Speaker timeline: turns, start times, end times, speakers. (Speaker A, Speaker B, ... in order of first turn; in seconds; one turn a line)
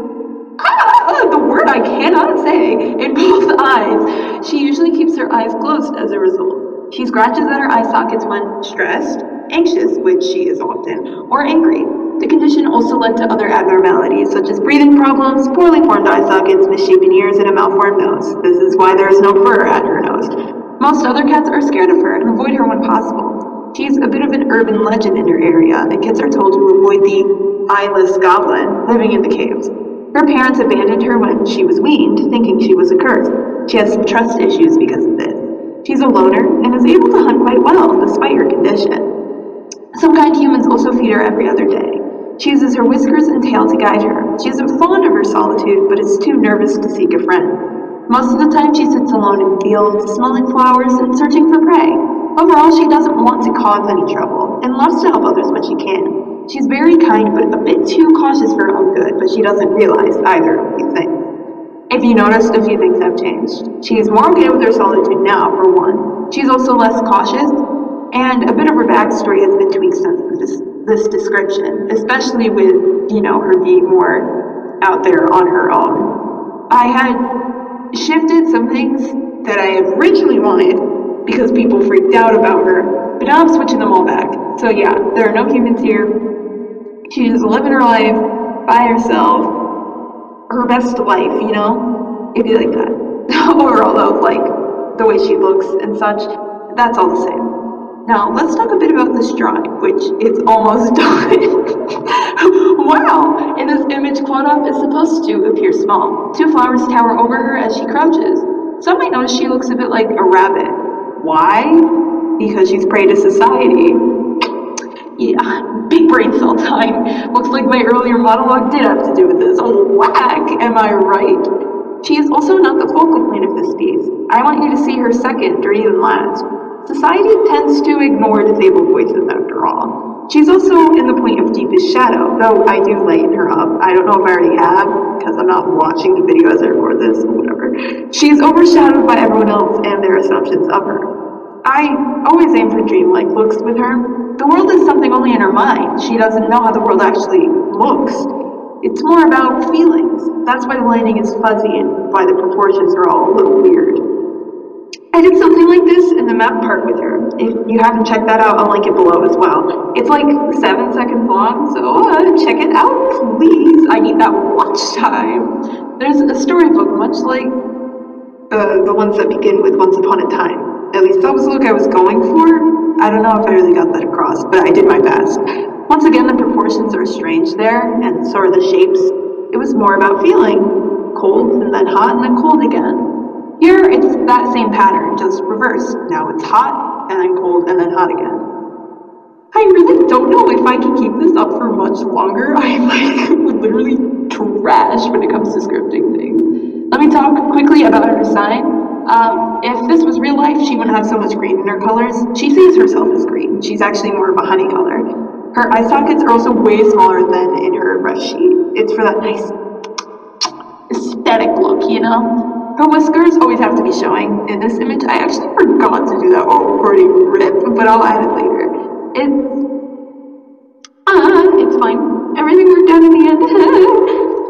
Speaker A: 0.6-39.1
Speaker A: 39.9-47.5
Speaker A: 48.1-61.2
Speaker A: 61.9-67.6
Speaker A: 68.1-74.3
Speaker A: 74.8-76.1
Speaker A: 76.7-77.2
Speaker A: 77.9-86.1
Speaker A: 87.1-89.5
Speaker A: 90.5-97.5
Speaker A: 98.0-101.5
Speaker A: 102.4-111.8
Speaker A: 112.4-114.0
Speaker A: 115.2-121.5
Speaker A: 122.0-141.1
Speaker A: 141.6-148.3
Speaker A: 148.8-154.0
Speaker A: 155.1-167.5
Speaker A: 168.5-183.1
Speaker A: 183.6-188.4
Speaker A: 189.5-209.5
Speaker A: 210.9-219.5
Speaker A: 221.1-224.0